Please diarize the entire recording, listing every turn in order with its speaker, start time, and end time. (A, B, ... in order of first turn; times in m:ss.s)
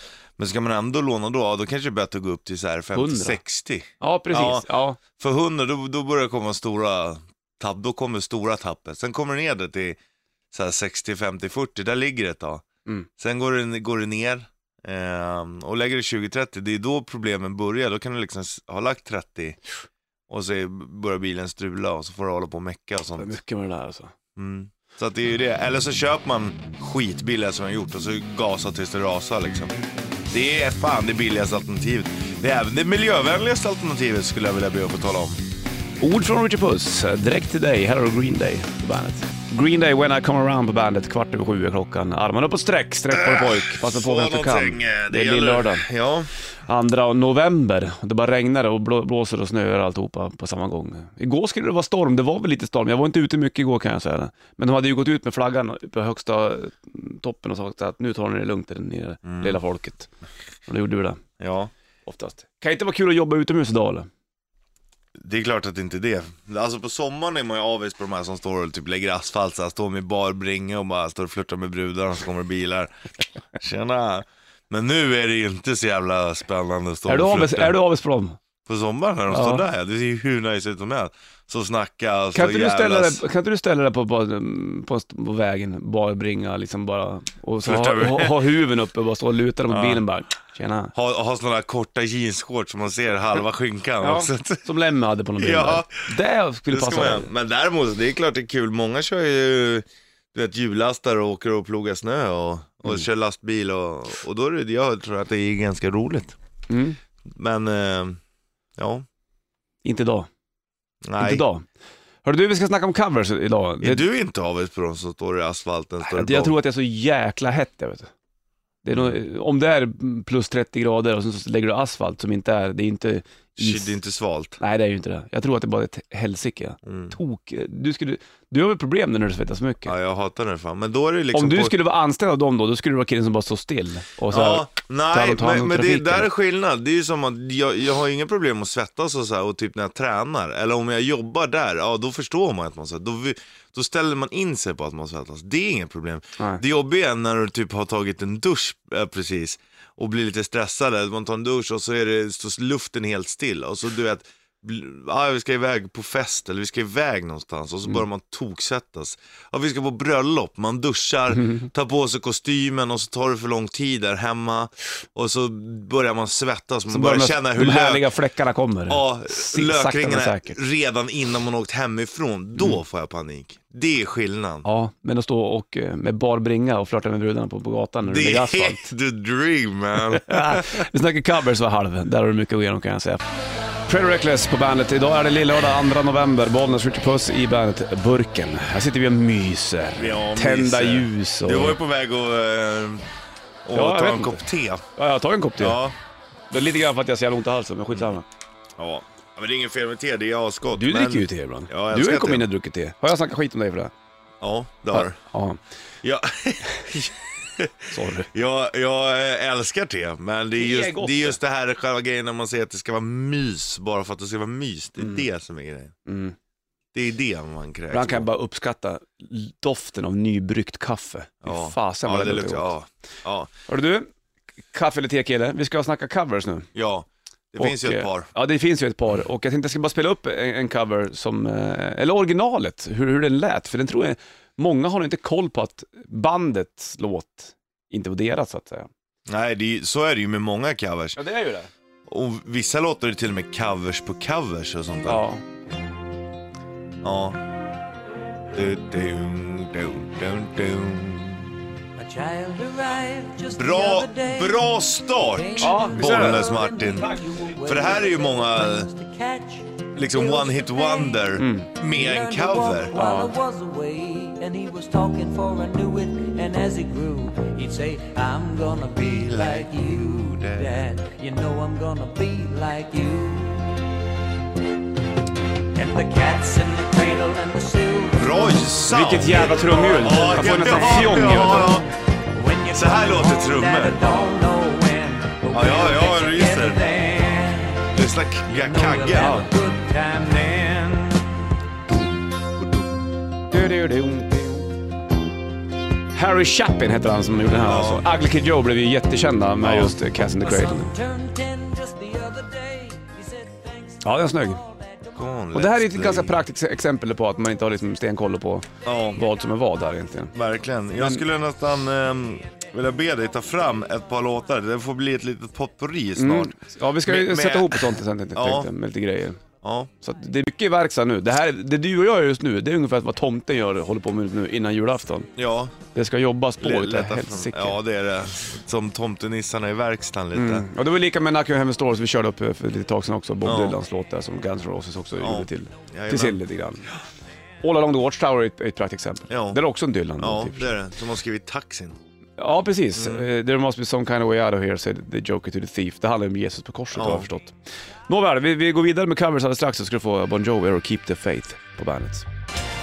0:00.4-0:10.0 A
0:02.9-0:03.4 B
0:04.0-0:05.0 B
0:10.5-0:12.6 A
0:13.2-0:19.6 A
0:20.3-0:23.4 A
0:23.2-0:24.1 B
0:24.4-0:29.8 A
0:30.3-0:35.4 A
0:36.0-0:45.8 B
0:43.1-0:46.3 A
0:46.7-1:00.1 B
0:59.2-0:59.6 A
1:00.7-1:01.2 B
1:01.4-1:01.7 A
1:02.1-1:04.1 B
1:05.2-1:17.8 A
1:17.1-1:18.4 B
1:18.6-1:23.2 A
1:19.3-1:19.6 B
1:22.3-1:30.9 B
1:27.6-1:28.5 A
1:29.7-1:30.0 A
1:30.9-1:34.7 A
1:34.0-1:37.3 B
1:35.4-1:36.1 A
1:36.7-1:46.4 A
1:46.7-1:47.0 B
1:47.3-1:48.2 A
1:48.8-1:49.1 A
1:49.8-1:50.3 B
1:51.0-1:51.4 A
1:51.2-1:51.7 B
1:52.2-1:54.0 B
1:53.8-1:56.6 A
1:56.0-1:58.1 B
1:58.8-2:04.0 B
2:03.6-2:04.6 A
2:04.6-2:09.9 B
2:06.8-2:07.2 A
2:09.8-2:11.7 A
2:11.3-2:16.3 B
2:14.3-2:48.1 A
2:41.3-2:41.7 B
2:46.9-2:50.6 B
2:48.9-2:54.7 A
2:54.6-2:58.8 B
2:58.0-3:00.9 A
3:00.0-3:03.2 B
3:03.9-3:11.8 B
3:10.0-3:13.1 A
3:13.6-3:14.8 A
3:13.7-3:14.4 B
3:15.0-3:15.8 B
3:15.6-3:15.9 A
3:16.5-3:18.3 B
3:18.8-3:22.5 A
3:20.7-3:23.9 B
3:24.4-3:25.2 A
3:24.9-3:25.6 B
3:26.0-3:35.9 A
3:27.9-3:28.3 B
3:30.6-3:31.4 B
3:35.0-3:35.2 B
3:36.1-3:36.4 B
3:36.9-3:38.3 A
3:37.9-3:42.7 B
3:41.4-3:43.5 A
3:43.7-3:44.1 B
3:44.7-3:46.7 B
3:46.8-3:48.3 A
3:47.6-3:58.9 B
3:59.3-4:01.2 A
4:01.2-4:01.7 B
4:02.1-4:05.2 A
4:05.0-4:05.4 B
4:07.0-4:07.4 A
4:08.5-4:11.5 A
4:12.0-4:33.8 C
4:13.6-4:18.9 A
4:15.6-4:17.4 B
4:19.9-4:23.0 A
4:21.4-4:21.7 B
4:22.9-4:23.3 B
4:29.0-4:30.8 A
4:35.8-4:47.9 C
4:38.2-4:41.9 A
4:38.9-4:41.8 B
4:42.7-4:44.2 A
4:45.5-4:46.8 A
4:47.9-4:49.4 A
4:48.5-4:51.3 C
4:49.2-4:49.5 B
4:53.5-4:54.7 B
4:56.1-5:00.9 B
4:57.6-4:58.1 A
4:59.6-5:00.0 A
5:00.4-5:05.2 C
5:04.0-5:04.6 B
5:05.1-5:06.5 A
5:05.5-5:10.3 B
5:08.8-5:09.2 A
5:10.3-5:18.7 A
5:11.0-5:11.2 B
5:16.2-5:19.4 B
5:19.6-5:19.9 A
5:20.0-5:25.3 B
5:25.4-5:25.8 A
5:25.9-5:27.8 B
5:26.6-5:30.7 A
5:30.3-5:36.9 B
5:33.4-5:33.8 A
5:35.2-5:36.4 A
5:37.6-5:40.7 B
5:39.3-5:39.6 A
5:40.2-5:42.0 A
5:42.4-5:47.5 B
5:42.9-5:43.3 A
5:46.9-5:47.3 A
5:48.1-5:52.3 B